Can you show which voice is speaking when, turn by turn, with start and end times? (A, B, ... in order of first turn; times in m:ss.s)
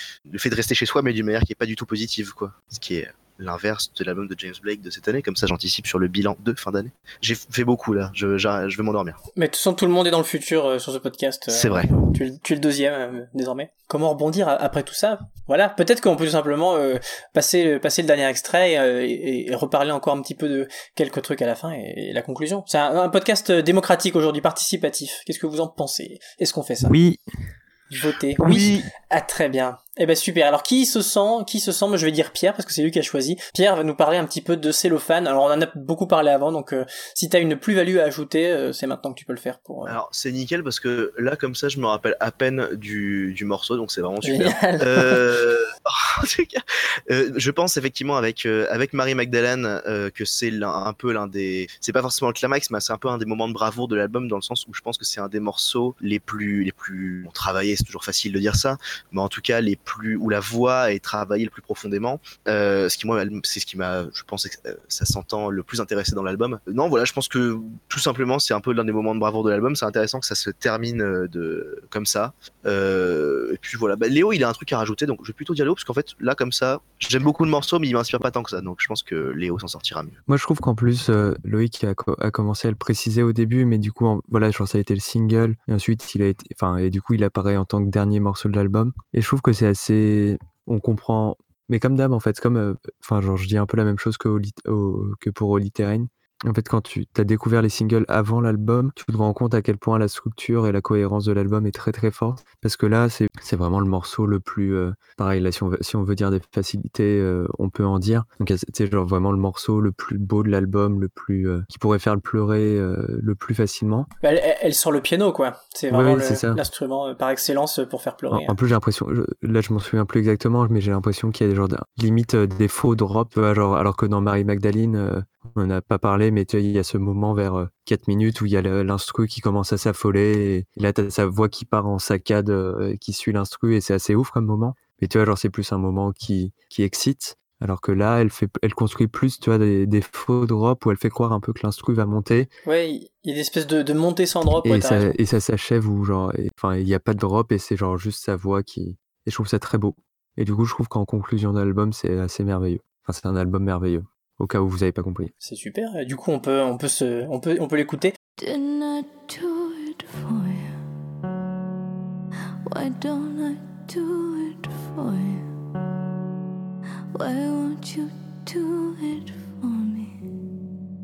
0:00.3-0:09.2 A
0:09.4-0:27.0 B
0:11.5-0:11.9 A
0:26.8-0:27.2 C
0:27.9-0:40.0 B
0:28.4-0:28.9 C
0:39.9-1:20.2 A
0:44.2-0:45.2 B
1:20.3-1:54.1 C
1:54.2-1:58.6 B
1:55.9-1:56.6 C
1:58.3-2:22.5 C
2:22.7-2:25.1 B
2:24.6-2:35.3 C
2:35.4-2:38.2 B
2:38.4-2:40.8 D
2:42.7-2:45.5 D
2:47.2-2:50.2 D